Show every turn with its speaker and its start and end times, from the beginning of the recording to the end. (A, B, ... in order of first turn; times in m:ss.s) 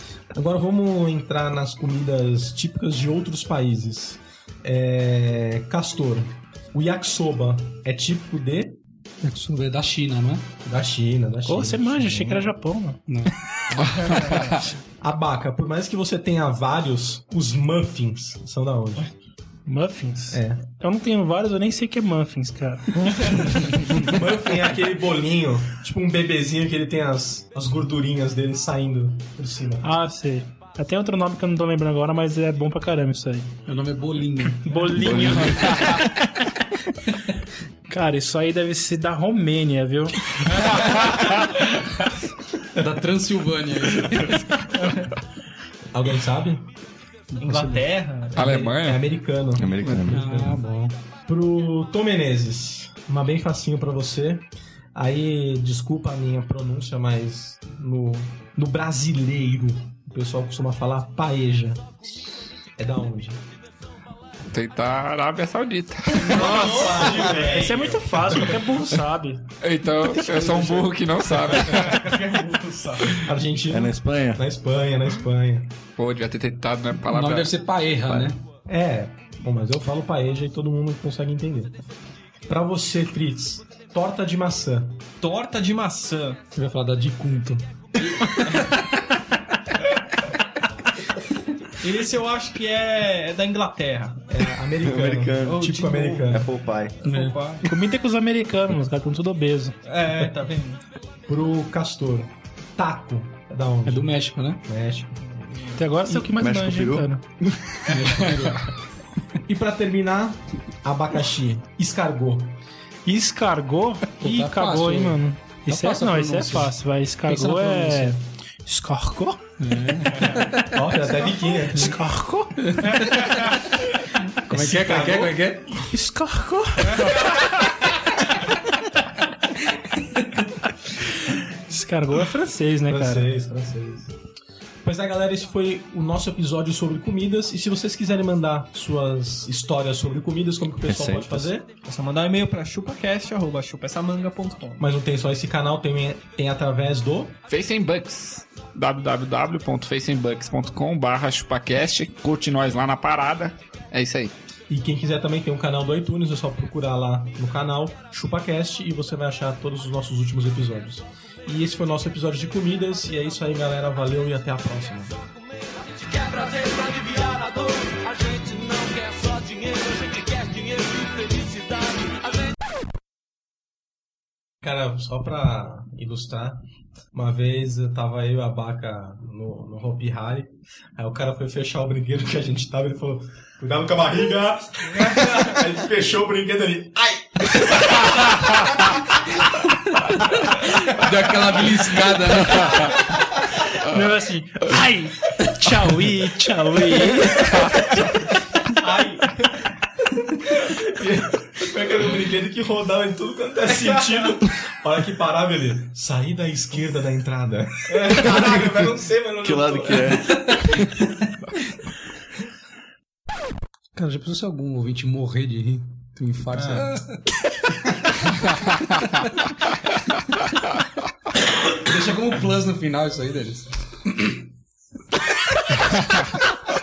0:00.3-0:08.8 A
0:09.2-0:10.5 B
0:10.6-0:12.5 A
0:11.5-0:13.0 C
0:13.1-0:13.3 B
0:13.8-0:14.6 D
0:14.1-0:14.6 E
0:15.0-0:19.1 A
0:19.7-0:23.8 C
0:20.3-0:20.6 A
0:23.9-0:29.9 A
0:29.8-0:33.5 C
0:33.7-0:36.0 B
0:34.6-0:36.0 C
0:35.0-0:36.0 F
0:37.9-0:40.2 C
0:40.8-0:41.2 D
0:42.8-0:44.4 B
0:44.8-0:45.1 E
0:45.9-0:46.7 A
0:47.4-0:48.8 E
0:47.4-0:47.7 B
0:48.4-0:49.0 D
0:48.4-0:50.6 A
0:49.6-0:50.4 F
0:49.8-0:50.1 D
0:50.1-0:51.0 B
0:51.3-1:01.9 A
1:02.8-1:03.4 A
1:04.5-1:06.7 D
1:06.2-1:08.5 A
1:06.3-1:09.4 C
1:06.3-1:07.7 E
1:07.0-1:07.4 F
1:09.6-1:12.2 D
1:10.3-1:10.9 A
1:11.7-1:13.2 E
1:13.2-1:15.7 A
1:13.7-1:14.4 F
1:16.0-1:17.5 D
1:17.1-1:18.4 B
1:18.0-1:18.3 F
1:18.7-1:21.7 A
1:22.5-1:25.0 A
1:25.2-1:26.4 E
1:26.5-1:29.0 B
1:31.8-1:34.2 E
1:34.3-1:36.5 A
1:34.8-1:35.6 F
1:35.4-1:36.4 E
1:36.3-1:37.0 F
1:37.0-1:37.7 E
1:37.1-1:37.4 B
1:37.6-1:39.8 C
1:39.9-1:40.8 E
1:40.1-1:40.4 A
1:41.3-1:45.6 A
1:43.8-1:44.6 B
1:45.8-1:47.2 C
1:46.1-1:47.1 F
1:47.9-1:48.7 B
1:49.5-1:52.6 A
1:53.1-1:59.5 C
1:54.2-1:58.2 B
1:59.6-2:00.8 B
2:00.7-2:01.9 A
2:01.7-2:03.4 C
2:02.6-2:03.6 B
2:04.5-2:05.8 B
2:04.5-2:05.4 A
2:05.9-2:07.3 C
2:11.1-2:13.3 C
2:12.9-2:14.1 A
2:14.8-2:21.7 A
2:20.8-2:21.5 F
2:21.9-2:24.8 E
2:24.8-2:27.4 A
2:27.5-2:34.3 D
2:34.7-2:45.2 A
2:46.2-2:52.1 G
2:54.6-2:56.6 A
2:57.1-3:08.9 A
3:10.5-3:13.0 B
3:13.6-3:17.8 C
3:18.8-3:19.2 A
3:20.4-3:30.8 A
3:29.4-3:30.4 F
3:34.0-3:37.2 B
3:36.5-3:37.0 A
3:41.6-3:44.4 B